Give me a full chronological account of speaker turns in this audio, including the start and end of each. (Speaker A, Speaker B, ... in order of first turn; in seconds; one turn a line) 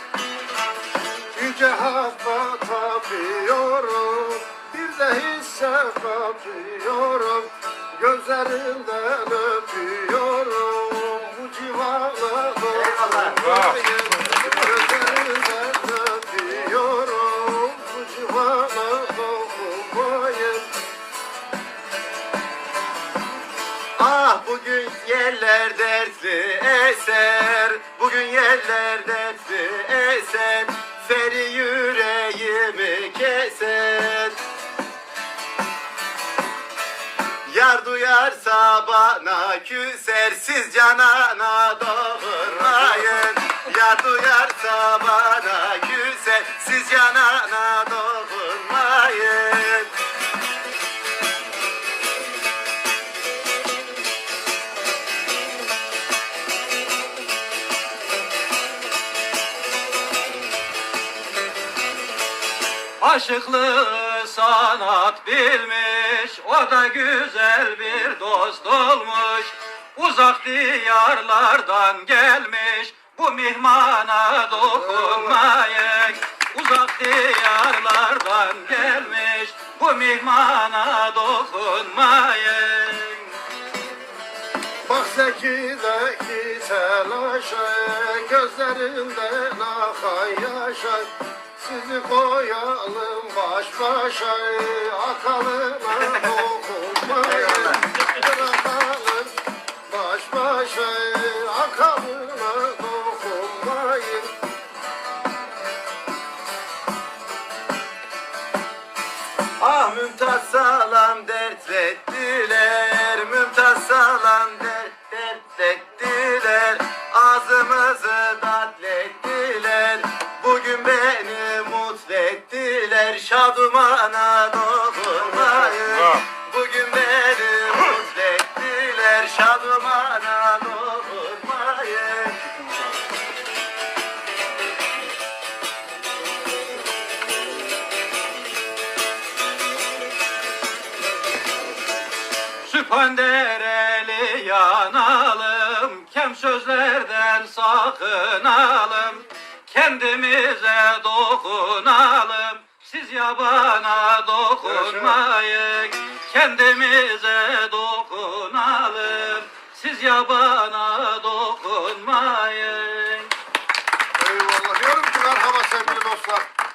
Speaker A: 1.3-20.7
Speaker B: 12.7-13.5
Speaker B: 24.0-34.4
Speaker B: 37.5-49.9
Speaker C: 63.0-83.4
Speaker A: 74.7-75.4
Speaker A: 84.9-99.3
Speaker B: 97.2-97.9
Speaker A: 99.9-104.3
Speaker B: 109.6-132.4
Speaker C: 142.6-163.3
Speaker A: 154.6-155.2
Speaker A: 164.2-166.5